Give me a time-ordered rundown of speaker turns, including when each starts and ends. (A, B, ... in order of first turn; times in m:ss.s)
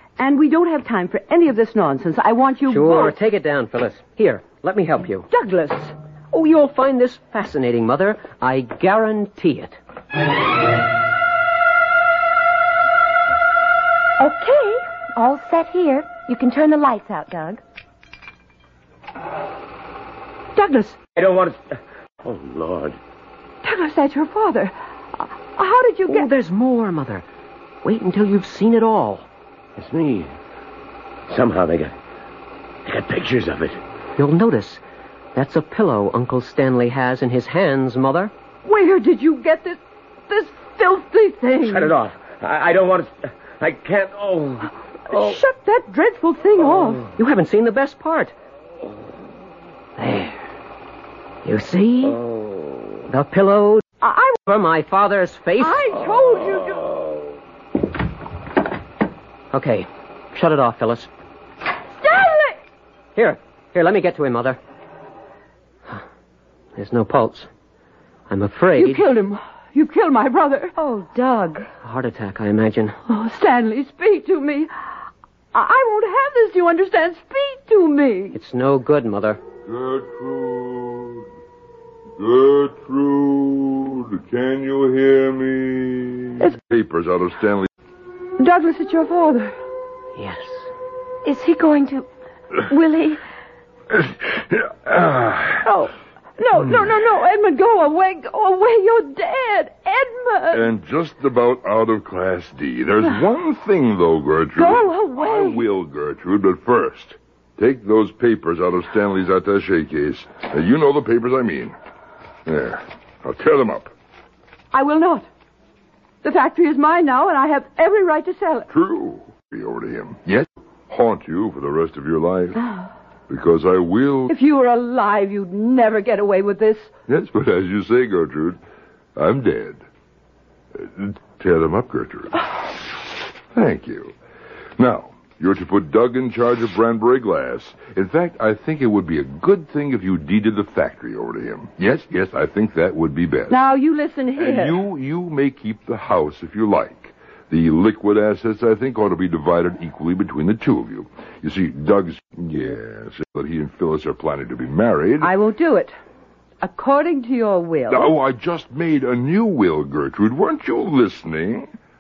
0:00.2-0:03.1 A
0:02.7-0:05.3 B
0:05.3-0:05.9 A
0:06.3-0:09.8 B
0:14.2-0:17.6 C
0:20.5-0:21.0 A
0:21.2-0:23.0 D
0:23.6-0:26.3 A
0:26.1-0:27.2 B
0:27.8-0:29.3 B
0:29.8-0:30.3 D
0:31.3-0:31.9 D
0:32.8-0:33.8 D
0:34.2-0:34.8 B
0:35.3-0:38.3 B
0:38.6-0:41.9 A
0:41.6-0:45.4 D
0:45.1-0:47.1 A
0:47.2-0:48.3 B
0:50.0-0:50.4 B
0:51.4-0:52.2 B
0:52.1-0:52.9 D
0:53.1-0:53.8 B
0:54.0-0:54.4 A
0:54.4-0:55.8 B
0:55.6-0:56.8 A
0:56.2-0:57.0 D
0:59.5-1:01.1 B
1:01.9-1:02.6 A
1:03.2-1:04.6 B
1:06.8-1:07.5 B
1:08.3-1:09.1 B
1:08.8-1:10.7 A
1:10.8-1:11.7 C
1:11.8-1:13.0 B
1:13.1-1:14.9 A
1:15.5-1:18.4 A
1:18.3-1:19.4 B
1:19.6-1:21.3 E
1:22.2-1:27.7 E
1:28.4-1:29.5 A
1:30.2-1:30.7 B
1:31.2-1:32.1 C
1:32.7-1:33.2 C
1:33.9-1:35.7 E
1:35.6-1:40.6 A
1:40.5-1:51.7 E
1:44.6-1:45.6 A
1:52.4-1:53.9 E
1:54.7-1:55.3 A
1:56.2-1:58.7 A
1:58.7-2:02.6 E
2:02.6-2:02.9 A
2:03.3-2:04.3 E
2:04.3-2:06.9 A
2:07.1-2:08.6 E
2:09.2-2:09.8 E
2:10.7-2:12.5 E
2:13.5-2:14.1 E
2:14.8-2:23.6 E
2:23.5-2:24.8 A
2:24.4-2:35.3 E
2:35.2-2:35.9 A
2:36.6-2:38.1 A
2:37.9-2:41.7 E